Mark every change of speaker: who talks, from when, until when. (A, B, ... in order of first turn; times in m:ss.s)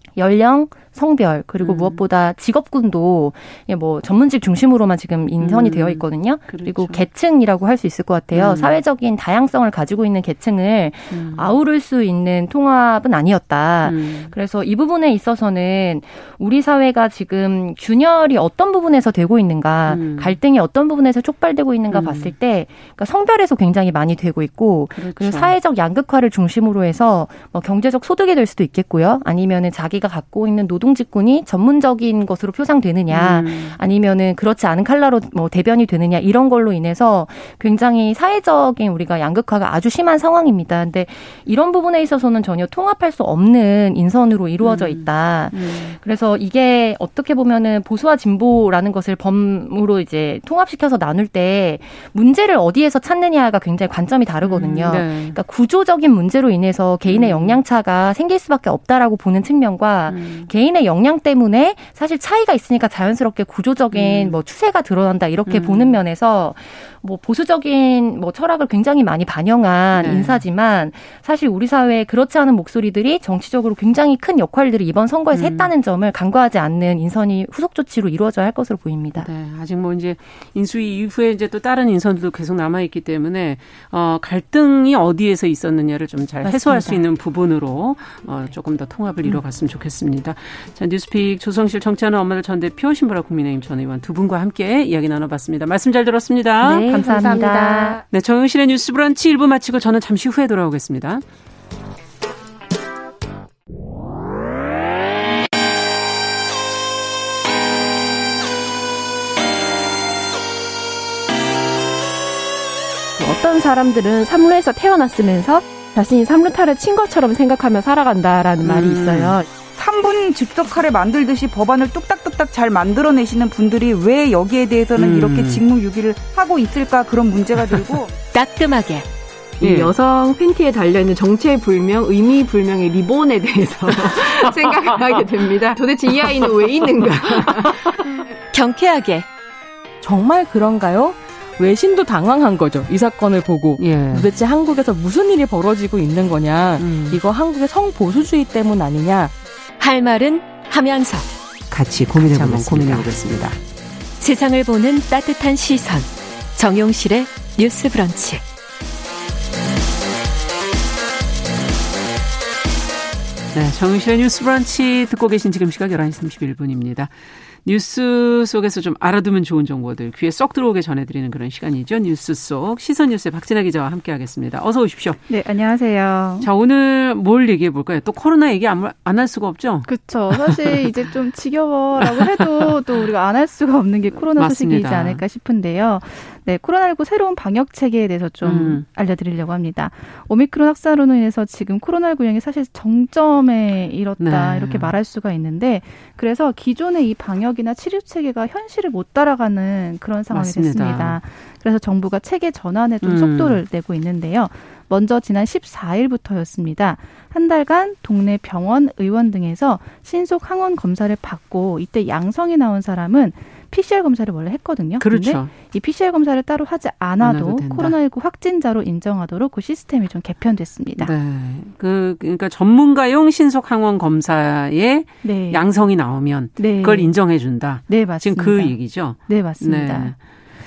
0:00.2-1:19.3 A
0:01.6-0:02.0 B
0:05.4-0:07.0 B
0:08.3-0:08.8 B
0:11.1-0:11.5 B
0:13.8-0:14.3 B
0:19.9-0:20.4 B
0:21.9-0:22.3 B
0:25.0-0:25.5 B
0:33.1-0:33.8 B
0:44.6-0:46.0 B
0:54.4-0:55.4 B
0:57.1-0:57.6 B
1:00.1-1:00.5 B
1:03.9-1:04.4 B
1:05.5-1:06.0 B
1:09.9-1:10.4 B
1:15.3-1:15.7 B
1:19.2-1:36.9 B
1:26.4-1:27.0 A
1:36.6-1:38.0 A
1:36.6-1:38.0 C
1:38.1-1:41.2 B
1:53.2-1:59.5 C
1:58.6-1:59.4 B
1:59.7-2:08.1 D
2:05.0-2:05.6 B
2:08.3-2:09.1 E
2:09.6-2:18.0 C
2:09.6-2:09.9 B
2:18.5-2:19.3 E
2:20.0-2:29.3 C
2:23.8-2:24.3 B
2:26.8-2:27.2 B
2:29.8-2:33.6 E
2:32.0-2:33.6 B
2:34.2-2:38.4 E
2:43.5-2:47.1 B
2:47.6-2:55.2 B
2:55.3-2:56.5 F
2:56.4-3:00.9 B
2:59.8-3:41.1 F
3:02.0-3:02.8 B
3:04.1-3:05.2 B
3:08.4-3:08.8 B
3:14.2-3:14.9 B
3:20.3-3:21.2 B
3:23.0-3:23.6 B
3:35.0-3:35.5 B
3:37.2-3:38.0 B
3:41.0-3:50.2 B
3:45.2-3:45.7 F
3:46.6-3:50.2 F